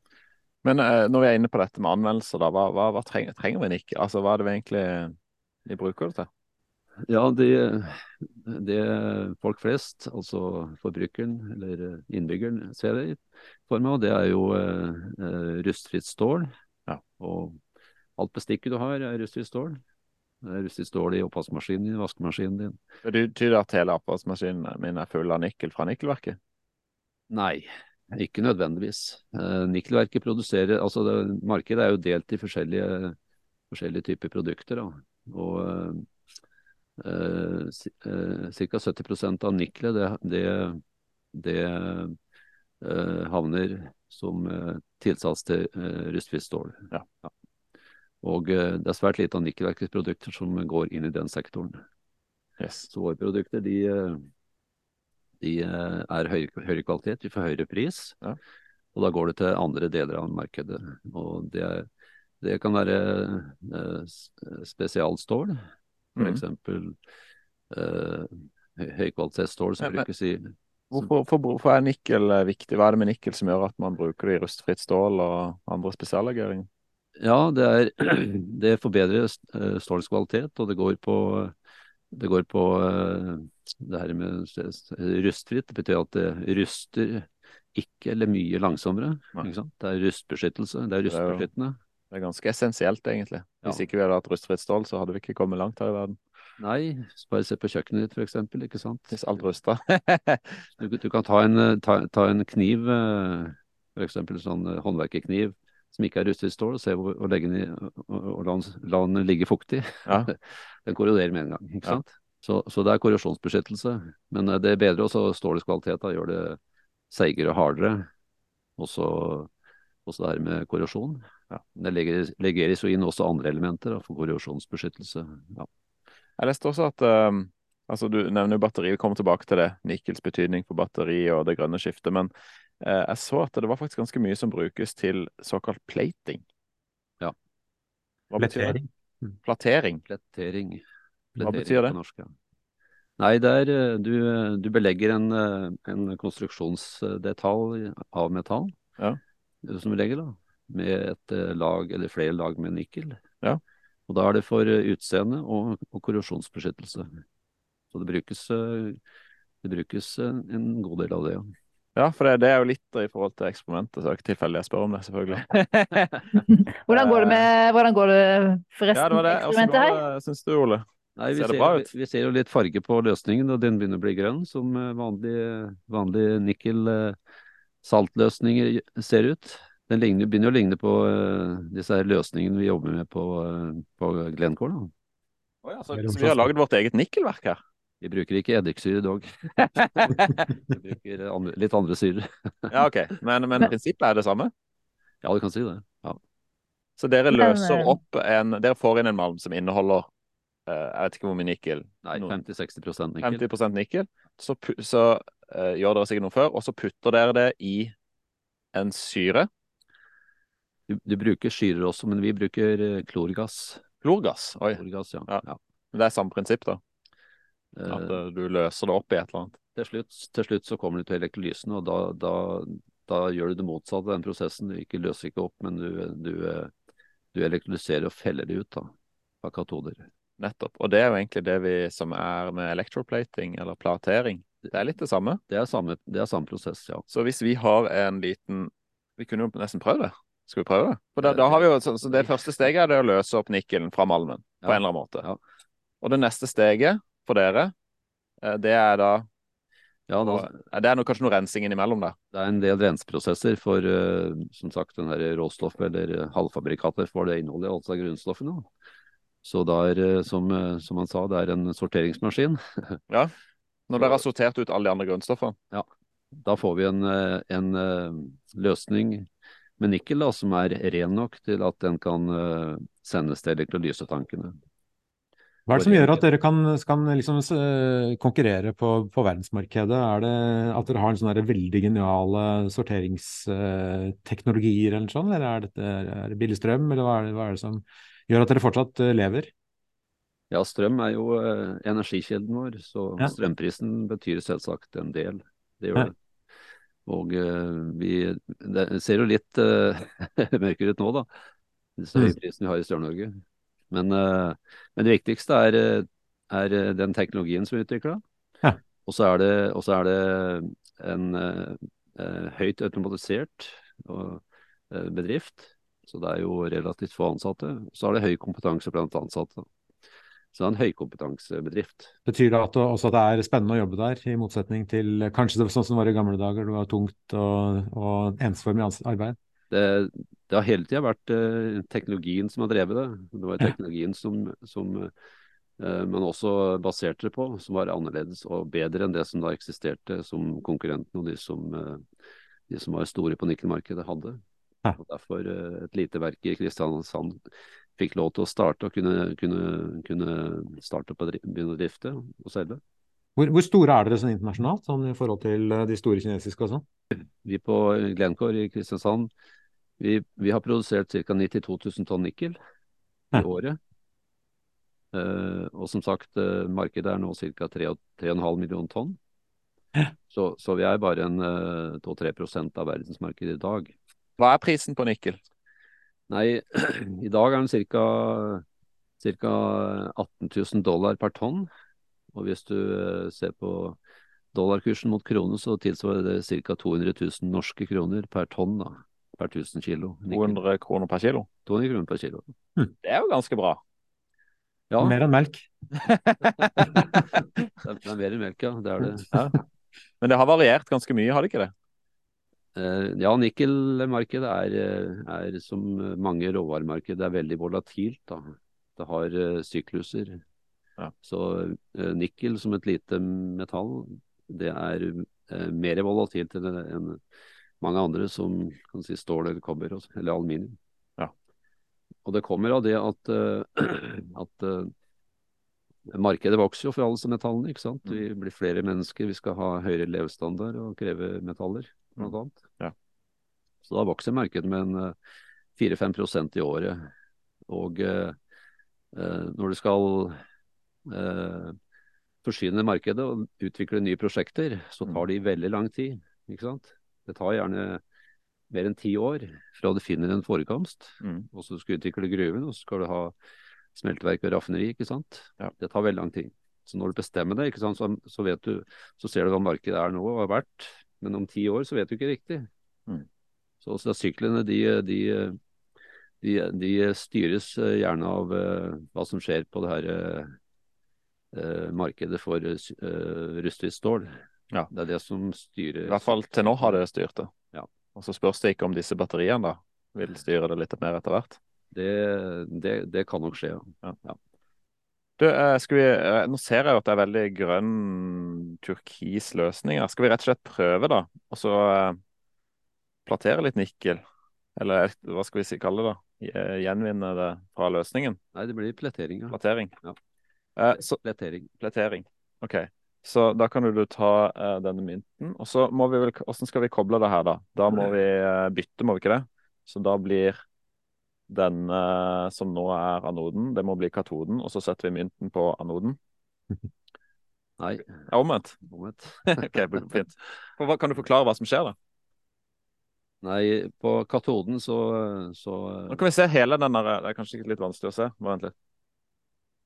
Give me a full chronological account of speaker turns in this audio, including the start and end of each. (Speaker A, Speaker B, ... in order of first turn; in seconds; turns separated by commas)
Speaker A: 0.6-5.1, Speaker A: 5.7-6.3, Speaker B: 7.1-16.5, Speaker B: 17.2-17.6, Speaker B: 18.2-19.8, Speaker B: 20.4-22.8, Speaker A: 23.1-26.4, Speaker B: 27.3-33.2, Speaker B: 33.7-36.1, Speaker B: 37.0-40.8, Speaker B: 41.3-42.2, Speaker B: 42.8-47.3, Speaker B: 48.2-51.8, Speaker A: 52.6-52.9, Speaker B: 52.9-54.3, Speaker B: 55.4-58.2, Speaker B: 59.0-61.9, Speaker B: 62.4-65.6, Speaker A: 66.2-66.4, Speaker B: 66.2-67.0, Speaker B: 67.7-71.0, Speaker A: 70.9-76.7, Speaker B: 77.2-81.5, Speaker B: 82.1-91.8, Speaker A: 91.1-91.5, Speaker A: 92.1-96.2, Speaker B: 96.6-99.2, Speaker A: 99.1-100.6, Speaker B: 100.8-116.6, Speaker B: 117.1-118.1, Speaker B: 118.8-119.5, Speaker B: 120.1-121.2, Speaker B: 121.8-125.7, Speaker A: 126.4-136.4, Speaker A: 138.3-138.8, Speaker C: 138.4-138.9, Speaker A: 139.4-140.0, Speaker B: 140.1-140.8, Speaker B: 141.4-142.3, Speaker A: 141.4-142.0, Speaker B: 143.2-148.7, Speaker B: 149.6-153.2, Speaker B: 154.1-157.1, Speaker B: 157.9-159.0, Speaker B: 159.6-161.5, Speaker A: 162.0-167.5, Speaker D: 166.5-170.0, Speaker A: 168.9-171.9, Speaker B: 171.2-177.2, Speaker B: 177.8-184.9, Speaker A: 185.6-187.6, Speaker C: 185.9-186.5, Speaker B: 188.0-189.6, Speaker A: 189.6-190.4, Speaker B: 190.7-192.7, Speaker A: 192.7-194.5, Speaker B: 195.2-196.2, Speaker A: 197.0-200.1, Speaker D: 197.3-198.0, Speaker A: 200.7-202.3, Speaker B: 202.1-203.4, Speaker A: 203.2-207.9, Speaker A: 208.7-209.5, Speaker B: 210.9-213.8, Speaker A: 214.0-216.8, Speaker B: 214.8-215.6, Speaker B: 217.8-218.2, Speaker A: 217.9-219.6, Speaker B: 219.8-226.7, Speaker B: 227.3-230.1, Speaker A: 230.4-235.4, Speaker B: 235.5-237.1, Speaker A: 237.1-245.2, Speaker B: 241.2-242.3, Speaker B: 244.6-245.4, Speaker A: 246.0-247.7, Speaker A: 248.4-249.3, Speaker B: 250.1-250.5, Speaker A: 250.2-252.2, Speaker B: 252.3-258.7, Speaker B: 259.4-263.0, Speaker A: 263.9-265.6, Speaker B: 266.4-269.3, Speaker B: 269.8-274.6, Speaker C: 275.7-289.5, Speaker B: 275.8-276.2, Speaker B: 290.5-296.1, Speaker B: 297.1-301.3, Speaker B: 302.0-308.2, Speaker B: 309.1-319.7, Speaker B: 320.5-322.1, Speaker C: 322.3-329.4, Speaker B: 329.7-335.1, Speaker B: 335.8-342.0, Speaker B: 342.7-344.4, Speaker B: 345.0-347.4, Speaker B: 348.0-352.8, Speaker C: 353.4-356.9, Speaker B: 357.4-359.3, Speaker B: 360.0-362.6, Speaker B: 363.3-363.8, Speaker B: 365.1-369.2, Speaker B: 370.3-373.9, Speaker A: 374.4-375.4, Speaker B: 376.3-378.6, Speaker B: 379.2-381.7, Speaker B: 382.3-384.0, Speaker B: 384.5-390.6, Speaker A: 390.3-391.5, Speaker B: 391.7-392.5, Speaker A: 393.0-393.8, Speaker B: 394.9-395.2, Speaker C: 395.0-395.7, Speaker A: 396.0-396.8, Speaker B: 396.8-397.3, Speaker B: 397.8-399.3, Speaker A: 399.3-399.6, Speaker A: 400.2-401.7, Speaker B: 402.8-410.4, Speaker B: 411.2-417.2, Speaker B: 417.8-420.8, Speaker B: 422.2-424.9, Speaker B: 426.1-432.6, Speaker A: 432.2-432.9, Speaker B: 433.8-435.1, Speaker B: 435.8-437.1, Speaker B: 437.7-438.4, Speaker B: 439.1-440.4, Speaker B: 441.1-441.8, Speaker B: 442.4-448.0, Speaker B: 448.7-453.3, Speaker B: 453.9-462.7, Speaker B: 463.8-465.6, Speaker B: 466.4-470.5, Speaker B: 471.5-474.3, Speaker B: 474.9-477.0, Speaker A: 476.1-477.5, Speaker A: 478.1-481.6, Speaker B: 481.9-484.4, Speaker A: 485.4-492.2, Speaker A: 493.3-494.2, Speaker A: 494.8-498.4, Speaker B: 498.6-500.2, Speaker A: 499.5-499.9, Speaker A: 500.8-501.2, Speaker B: 501.2-501.7, Speaker A: 501.8-510.6, Speaker A: 511.5-516.2, Speaker B: 517.8-518.3, Speaker A: 518.3-518.8, Speaker B: 518.8-519.7, Speaker A: 519.5-522.0, Speaker B: 523.4-526.2, Speaker A: 526.1-528.7